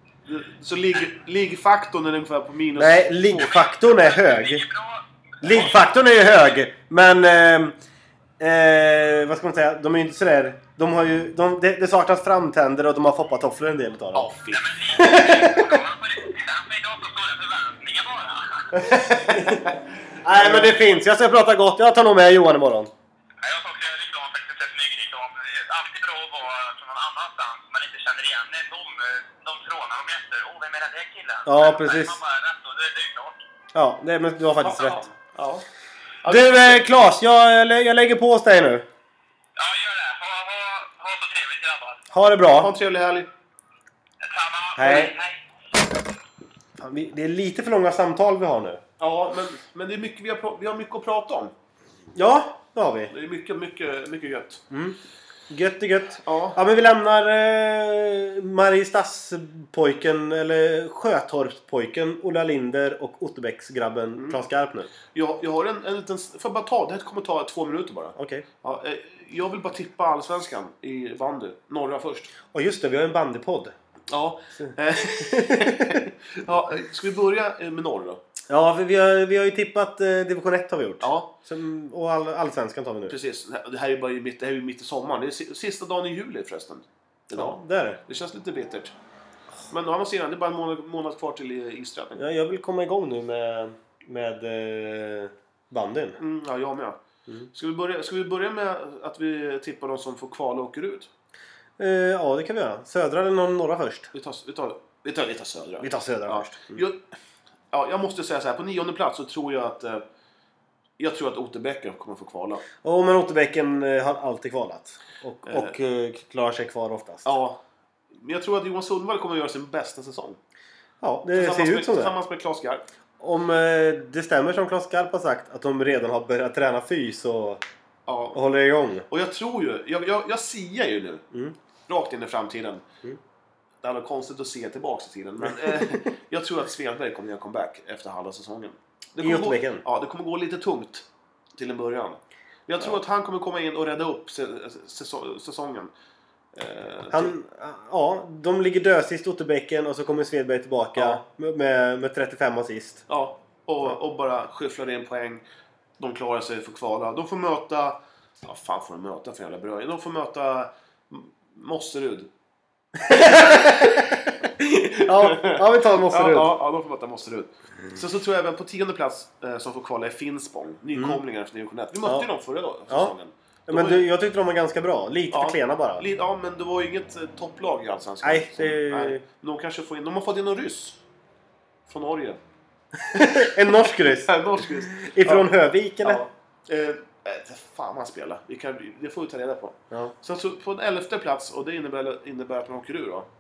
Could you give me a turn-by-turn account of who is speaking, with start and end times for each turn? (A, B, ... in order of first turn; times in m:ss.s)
0:00.3-0:03.4 A
0:02.8-0:04.6 B
0:03.4-0:05.6 C
0:05.4-0:07.8 B
0:08.4-0:14.3 B
0:14.1-0:14.7 A
0:14.5-0:18.9 C
0:14.9-0:15.8 B
0:18.8-0:19.6 B
0:19.3-0:19.7 A
0:20.2-0:22.9 B
0:20.4-0:20.8 A
0:23.4-0:33.4 C
0:31.5-0:32.2 B
0:33.7-0:35.0 B
0:34.6-0:35.7 A
0:36.2-0:36.8 A
0:36.3-0:38.9 B
0:39.6-0:42.0 C
0:42.1-0:42.7 B
0:42.5-0:43.3 A
0:44.2-0:45.4 C
0:44.8-0:45.2 B
0:46.8-0:48.8 B
0:49.0-0:51.5 A
0:52.2-0:53.1 B
0:53.1-0:54.6 A
0:54.7-0:55.0 B
0:55.5-1:04.9 B
0:56.2-0:56.6 A
1:05.1-1:12.3 A
1:08.2-1:08.4 B
1:12.5-1:13.7 B
1:14.1-1:18.2 A
1:14.6-1:16.1 B
1:18.5-1:23.2 B
1:21.0-1:21.3 A
1:23.1-1:28.9 A
1:27.4-1:28.0 B
1:29.7-1:32.2 A
1:32.2-1:36.2 B
1:36.2-1:41.1 A
1:41.8-1:44.1 B
1:44.1-1:47.0 A
1:45.8-1:46.8 B
1:47.7-1:50.0 A
1:51.0-1:52.6 A
1:52.8-1:57.3 B
1:55.5-1:55.8 A
1:57.2-1:57.6 A
1:58.2-2:00.4 A
2:01.0-2:02.2 B
2:01.3-2:02.8 A
2:03.2-2:07.6 B
2:08.1-2:08.4 A
2:08.3-2:09.1 B
2:09.1-2:11.2 A
2:11.9-2:12.9 A
2:13.8-2:21.1 A
2:15.4-2:16.0 B
2:19.2-2:19.8 B
2:21.6-2:25.9 A
2:26.5-2:27.4 A
2:27.1-2:33.0 B
2:31.0-2:31.2 A
2:33.1-2:35.4 A
2:36.0-2:42.3 A
2:43.0-2:46.6 B
2:43.1-2:44.1 A
2:44.8-2:54.1 A
2:51.0-2:51.2 B
2:52.9-2:53.2 B
2:53.7-2:56.0 B
2:55.3-3:01.0 A
2:58.2-2:59.2 B
3:01.9-3:02.4 A
3:03.0-3:06.2 B
3:03.2-3:13.3 A